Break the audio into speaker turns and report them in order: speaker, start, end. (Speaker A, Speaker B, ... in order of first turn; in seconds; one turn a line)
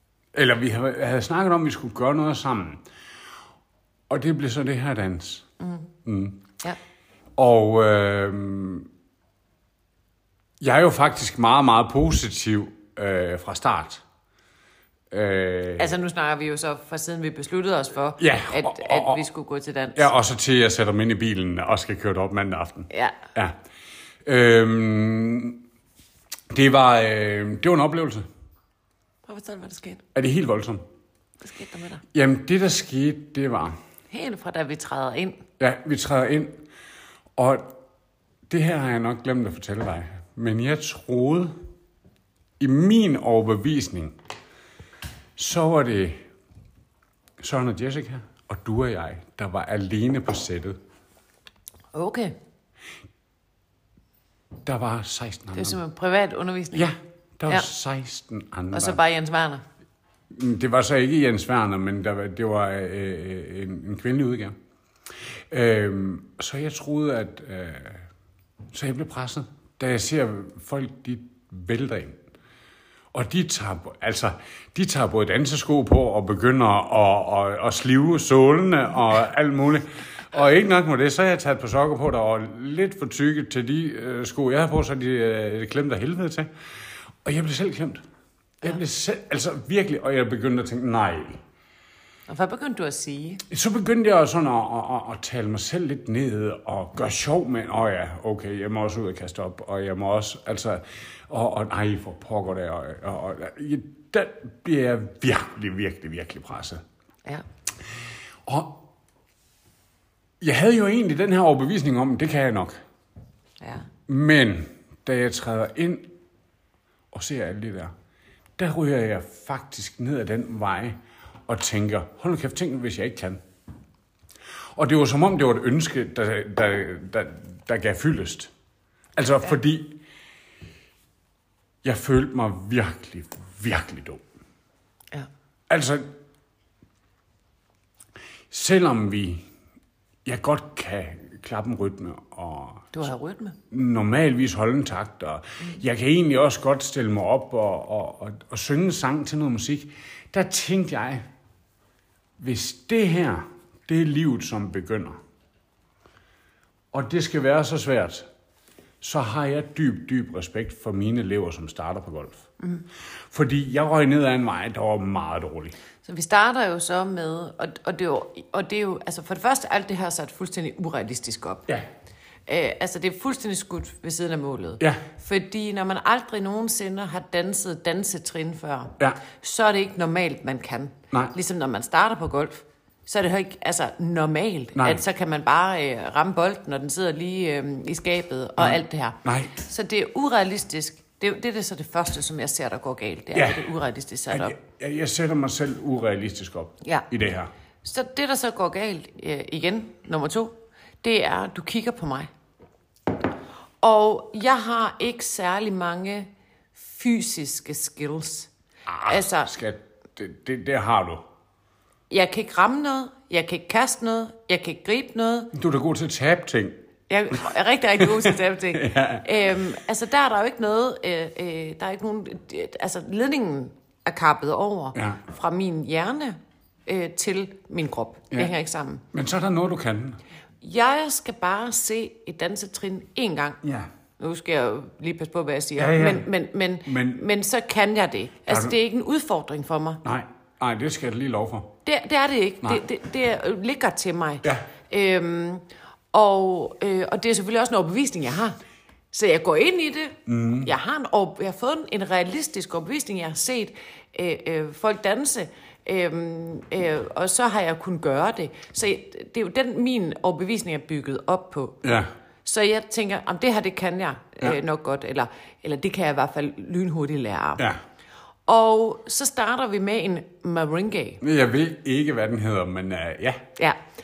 Speaker A: 0.3-2.9
Speaker A: 4.1-5.5
Speaker B: 5.6-5.9
Speaker A: 6.0-6.5
Speaker A: 7.4-8.9
Speaker A: 10.6-14.0
Speaker A: 15.1-15.9
Speaker B: 15.8-20.1
Speaker A: 18.2-19.2
Speaker A: 20.0-23.6
Speaker B: 22.9-23.2
Speaker A: 24.2-25.6
Speaker A: 26.5-28.3
Speaker B: 29.3-30.0
Speaker A: 30.1-30.8
Speaker B: 31.4-32.0
Speaker A: 32.1-33.8
Speaker B: 34.1-35.4
Speaker A: 35.6-36.6
Speaker A: 37.4-37.7
Speaker A: 38.5-41.6
Speaker A: 42.6-44.2
Speaker A: 45.4-46.2
Speaker A: 47.4-50.8
Speaker B: 51.9-52.4
Speaker A: 54.6-55.8
Speaker B: 55.5-56.9
Speaker A: 56.7-59.0
Speaker B: 58.7-59.6
Speaker A: 60.3-64.6
Speaker A: 65.5-68.1
Speaker A: 68.7-72.2
Speaker A: 73.1-86.5
Speaker A: 87.2-88.0
Speaker A: 88.6-91.4
Speaker B: 92.3-93.4
Speaker A: 93.5-106.8
Speaker A: 108.5-108.8
Speaker A: 110.4-112.8
Speaker B: 113.6-113.9
Speaker A: 114.1-116.1
Speaker A: 117.1-117.9
Speaker A: 118.6-123.4
Speaker A: 124.8-128.5
Speaker A: 129.2-130.0
Speaker A: 131.8-134.2
Speaker A: 135.7-136.1
Speaker A: 138.5-139.5
Speaker A: 140.2-143.0
Speaker B: 142.9-143.6
Speaker A: 143.7-151.2
Speaker A: 152.4-155.2
Speaker A: 156.9-158.3
Speaker A: 159.0-162.5
Speaker A: 163.3-165.8
Speaker B: 166.0-171.7
Speaker B: 172.5-194.6
Speaker A: 184.8-185.0
Speaker A: 188.6-189.6
Speaker A: 193.3-193.7
Speaker A: 194.3-197.5
Speaker B: 196.8-197.1
Speaker B: 197.8-202.3
Speaker B: 203.8-208.5
Speaker A: 208.9-211.3
Speaker B: 209.0-209.5
Speaker B: 212.1-215.5
Speaker A: 215.5-216.8
Speaker B: 217.1-229.1
Speaker A: 218.0-219.6
Speaker A: 225.0-225.2
Speaker A: 229.1-230.2
Speaker B: 230.6-233.6
Speaker A: 233.6-233.9
Speaker B: 234.2-240.0
Speaker A: 235.8-236.3
Speaker A: 236.9-237.2
Speaker A: 238.5-238.8
Speaker A: 240.0-241.8
Speaker B: 241.8-248.6
Speaker B: 249.1-261.8
Speaker A: 250.3-250.7
Speaker A: 261.8-262.1
Speaker B: 262.4-267.7
Speaker B: 268.5-271.2
Speaker A: 271.2-273.4